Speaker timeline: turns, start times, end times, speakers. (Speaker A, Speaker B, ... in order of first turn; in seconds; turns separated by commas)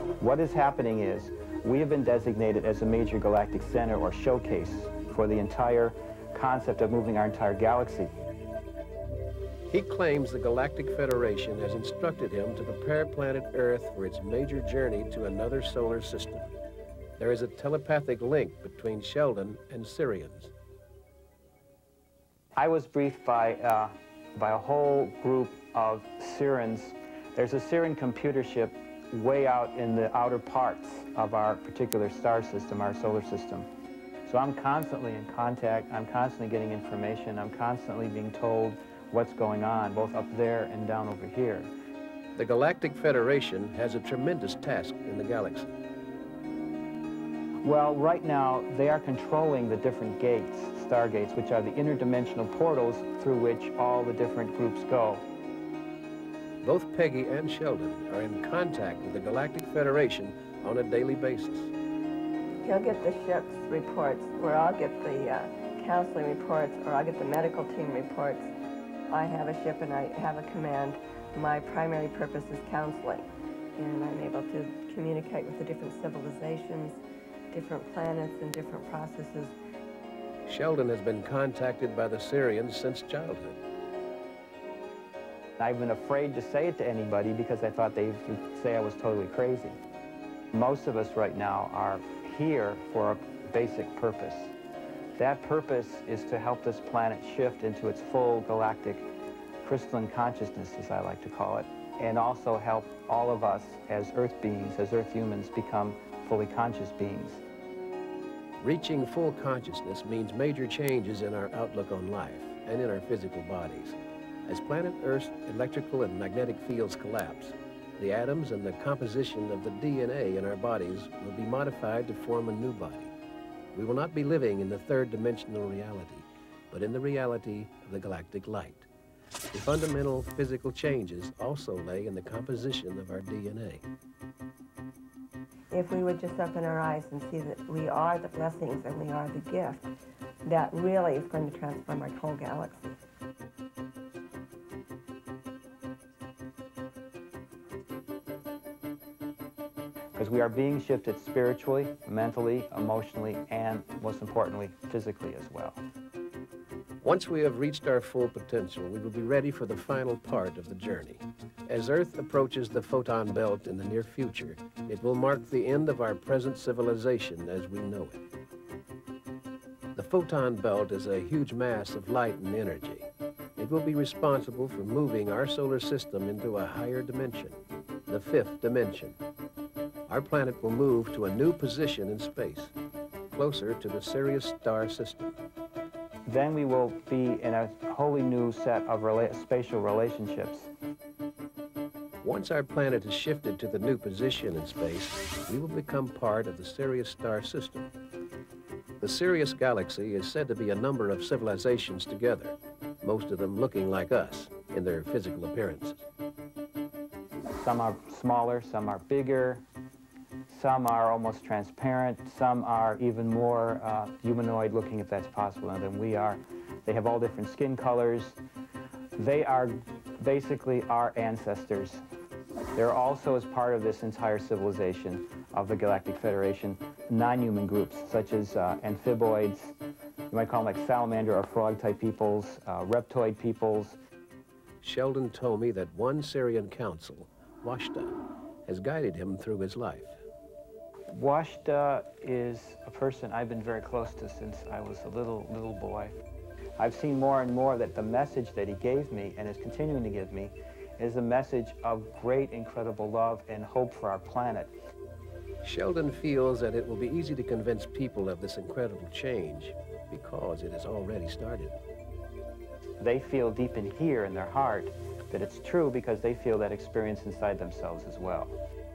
Speaker A: 0.2-8.1, Speaker B: 9.7-16.5, Speaker B: 17.2-20.5, Speaker A: 22.6-33.7, Speaker A: 34.3-41.7, Speaker B: 42.4-45.7, Speaker A: 47.6-55.2, Speaker B: 56.6-61.7, Speaker C: 62.6-68.5, Speaker C: 69.1-77.0, Speaker C: 77.5-79.5, Speaker B: 80.5-83.6, Speaker A: 85.6-89.8, Speaker A: 90.5-94.5, Speaker A: 95.2-99.1, Speaker A: 99.6-107.4, Speaker B: 108.6-123.1, Speaker B: 123.7-128.9, Speaker B: 129.5-133.8, Speaker C: 135.7-139.9, Speaker C: 140.4-143.0, Speaker A: 150.2-155.8, Speaker B: 157.0-168.2, Speaker B: 169.9-179.2, Speaker B: 180.1-182.7, Speaker B: 183.3-185.4, Speaker A: 186.3-190.7, Speaker B: 192.2-197.9, Speaker B: 199.0-206.1, Speaker A: 207.6-209.6, Speaker A: 210.5-218.4, Speaker A: 219.2-222.0, Speaker A: 222.8-229.8, Speaker A: 230.3-234.0, Speaker B: 234.8-240.2, Speaker A: 241.1-246.2, Speaker A: 246.8-254.7, Speaker B: 255.6-261.8, Speaker A: 263.0-268.6